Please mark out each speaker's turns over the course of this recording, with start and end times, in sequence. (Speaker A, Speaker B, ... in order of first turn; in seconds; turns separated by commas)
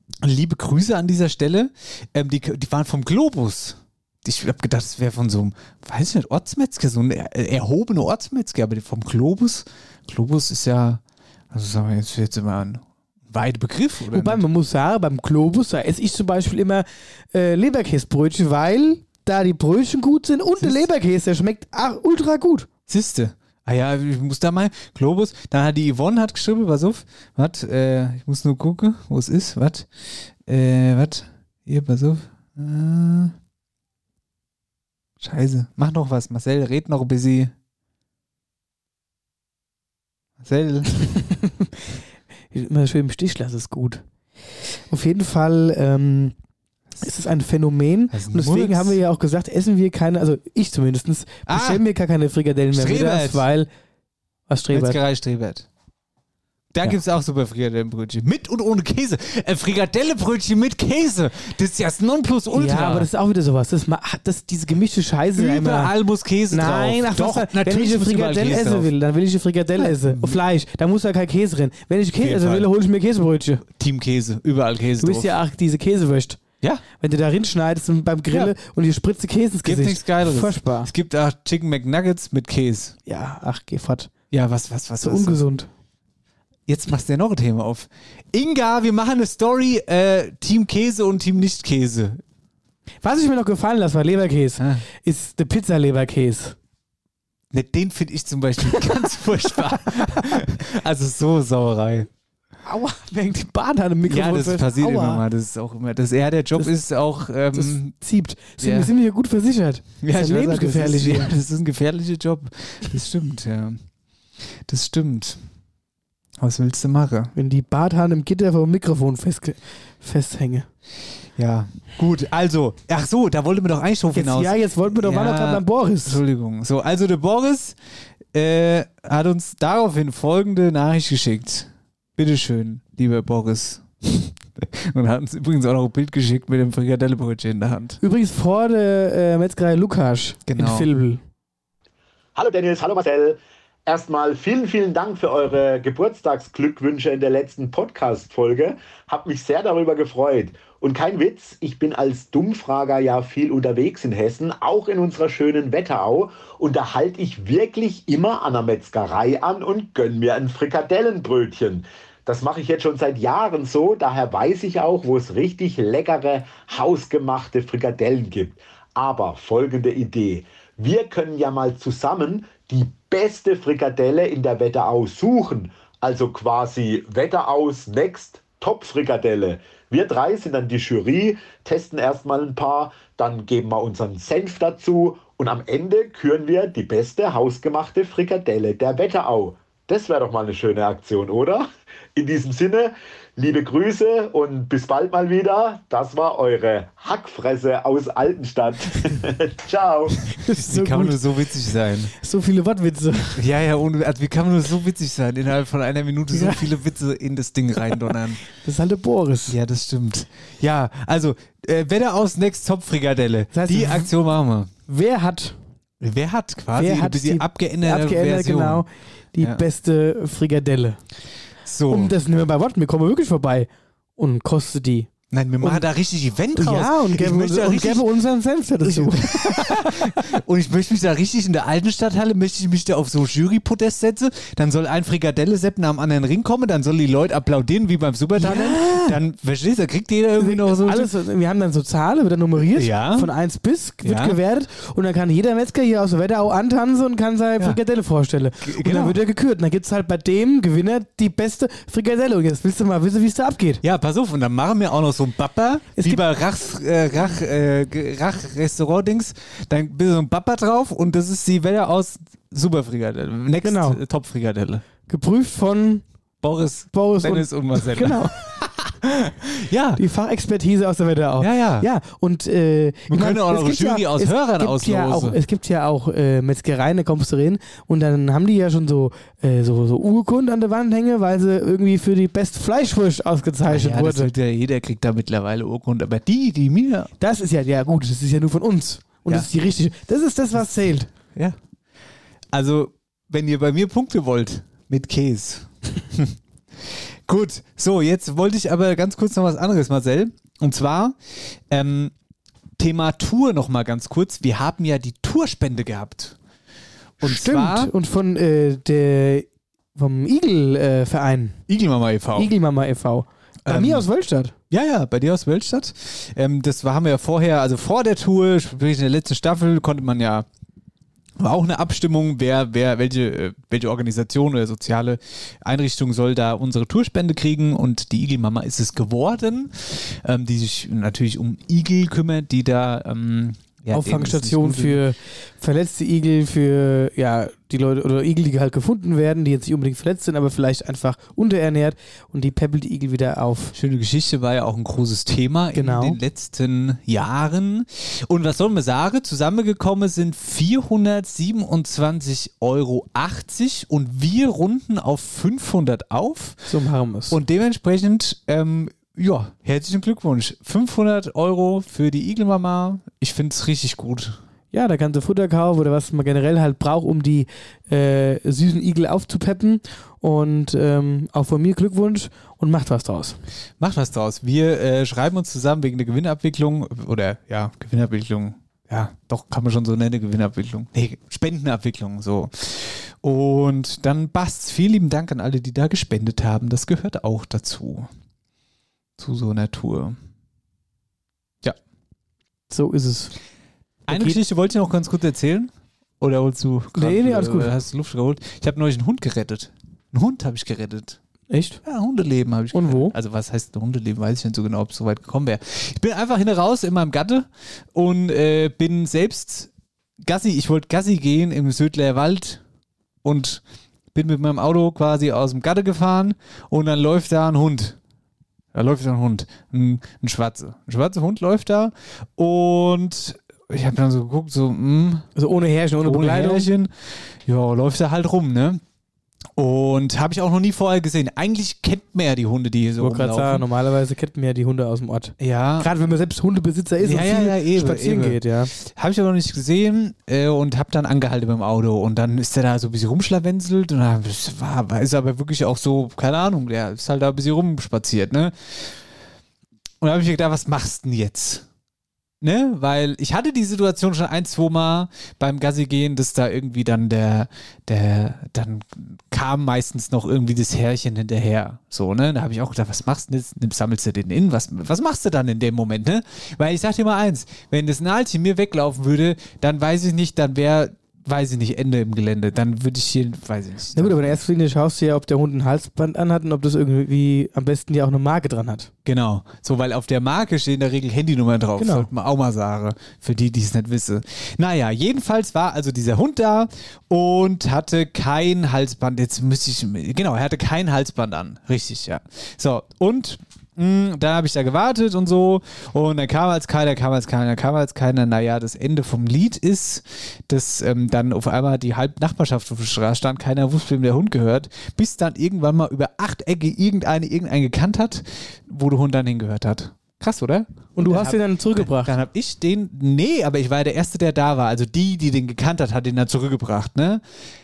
Speaker A: 0.2-14.4, Speaker B: 14.1-22.7, Speaker A: 22.9-29.9, Speaker A: 30.4-33.3, Speaker A: 35.2-37.5, Speaker A: 40.4-40.9, Speaker B: 42.5-46.4, Speaker B: 47.0-53.7, Speaker A: 48.1-49.0, Speaker A: 51.5-51.8, Speaker A: 52.7-53.4, Speaker B: 54.5-55.0, Speaker A: 54.7-55.7, Speaker A: 56.7-63.1, Speaker B: 62.5-65.9, Speaker A: 65.4-68.9, Speaker B: 66.5-73.7, Speaker A: 69.8-70.4, Speaker A: 72.2-72.7, Speaker A: 73.7-75.3, Speaker B: 75.0-76.4, Speaker B: 77.0-80.9, Speaker A: 79.6-82.9, Speaker B: 83.1-84.1, Speaker A: 84.3-85.4, Speaker B: 85.0-85.7, Speaker A: 86.7-92.2, Speaker B: 93.0-96.6, Speaker A: 94.6-94.8, Speaker A: 97.5-102.1, Speaker B: 99.9-100.4, Speaker B: 102.7-105.2, Speaker A: 104.1-107.9, Speaker B: 107.5-111.3, Speaker A: 108.6-108.9, Speaker A: 110.0-113.8, Speaker A: 114.6-115.4, Speaker A: 116.4-117.3, Speaker B: 117.3-120.7, Speaker A: 121.4-127.8, Speaker B: 124.1-126.2, Speaker A: 128.3-138.0, Speaker B: 138.0-141.2, Speaker A: 140.5-140.9, Speaker C: 142.3-200.2, Speaker B: 200.4-201.2, Speaker A: 200.6-202.1, Speaker B: 202.2-203.4, Speaker A: 203.3-208.4, Speaker B: 206.3-206.7, Speaker B: 208.6-209.6, Speaker A: 209.5-214.7, Speaker B: 213.5-214.1, Speaker B: 214.9-215.6, Speaker A: 216.0-218.9, Speaker B: 216.8-221.0, Speaker A: 221.7-222.1, Speaker B: 221.9-225.1, Speaker A: 225.3-228.1, Speaker B: 226.6-230.2, Speaker A: 228.8-241.1, Speaker B: 238.4-239.2, Speaker B: 240.4-253.8, Speaker A: 242.8-243.3, Speaker A: 244.0-244.4, Speaker A: 248.6-249.2, Speaker A: 253.8-264.8, Speaker B: 256.0-256.2, Speaker B: 263.6-264.0, Speaker B: 265.1-266.1, Speaker A: 266.4-268.9, Speaker B: 266.9-268.4, Speaker A: 269.5-270.0, Speaker B: 270.0-284.3, Speaker A: 271.4-271.9, Speaker A: 273.1-275.4, Speaker A: 283.7-287.1, Speaker B: 287.2-291.1, Speaker A: 291.3-291.6, Speaker A: 292.5-302.1, Speaker A: 302.8-306.4, Speaker A: 307.2-307.9, Speaker B: 307.2-311.6, Speaker A: 311.7-312.5, Speaker B: 312.4-314.5, Speaker A: 313.7-314.1, Speaker A: 314.7-320.5, Speaker A: 321.4-335.0, Speaker B: 333.9-343.7, Speaker A: 343.7-356.6, Speaker B: 345.7-346.2, Speaker B: 356.7-357.4, Speaker A: 357.3-364.4, Speaker B: 364.7-373.4, Speaker A: 373.8-388.1, Speaker A: 389.2-390.2, Speaker B: 392.7-393.4, Speaker A: 394.1-401.2, Speaker B: 394.1-394.4, Speaker B: 396.9-397.7, Speaker B: 401.5-401.8, Speaker A: 401.8-409.7, Speaker B: 402.7-403.1, Speaker A: 410.2-412.6, Speaker A: 413.2-418.0, Speaker A: 418.7-425.3, Speaker B: 425.4-426.7, Speaker A: 426.1-428.8, Speaker A: 429.6-433.7, Speaker B: 433.0-438.7, Speaker A: 435.4-435.9, Speaker A: 437.0-449.0, Speaker A: 450.0-451.6, Speaker A: 452.4-474.4, Speaker B: 473.9-478.9, Speaker A: 479.1-517.2, Speaker B: 481.8-482.1, Speaker B: 511.0-512.1